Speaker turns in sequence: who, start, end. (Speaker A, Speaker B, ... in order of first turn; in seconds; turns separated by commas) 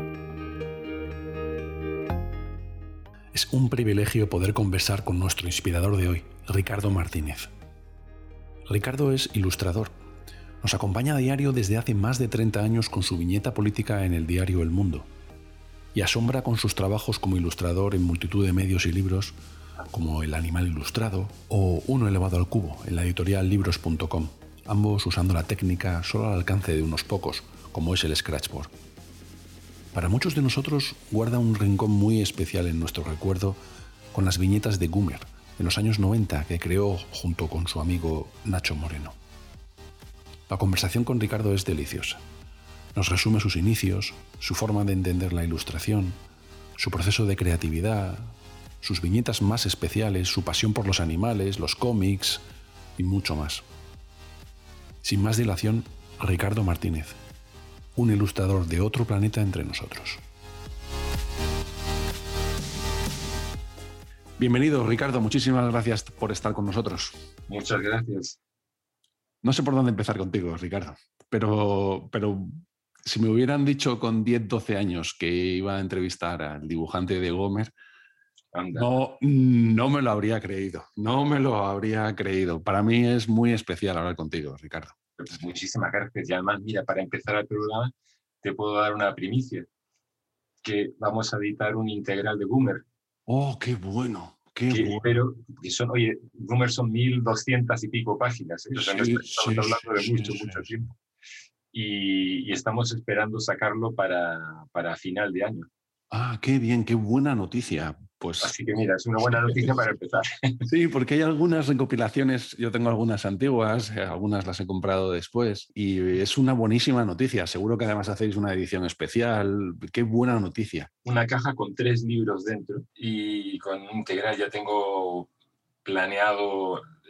Speaker A: 3.3-7.5, Speaker A: 8.7-9.9, Speaker A: 10.6-15.1, Speaker A: 15.9-19.4, Speaker A: 19.9-28.7, Speaker A: 29.9-33.6, Speaker A: 34.1-39.2, Speaker A: 40.5-42.2, Speaker A: 42.9-46.2, Speaker A: 46.8-52.4, Speaker A: 53.0-53.6, Speaker A: 55.0-57.2, Speaker A: 57.9-60.2, Speaker A: 64.4-67.2, Speaker B: 67.5-68.4, Speaker A: 69.4-77.7, Speaker B: 78.5-78.9, Speaker A: 78.7-85.0, Speaker B: 85.2-89.7, Speaker B: 90.6-92.8, Speaker A: 93.3-95.2, Speaker B: 94.7-100.9, Speaker A: 98.7-100.7, Speaker B: 101.7-105.7, Speaker A: 106.1-108.5, Speaker B: 108.4-110.6, Speaker A: 110.6-120.9, Speaker B: 121.0-125.3, Speaker B: 125.8-126.8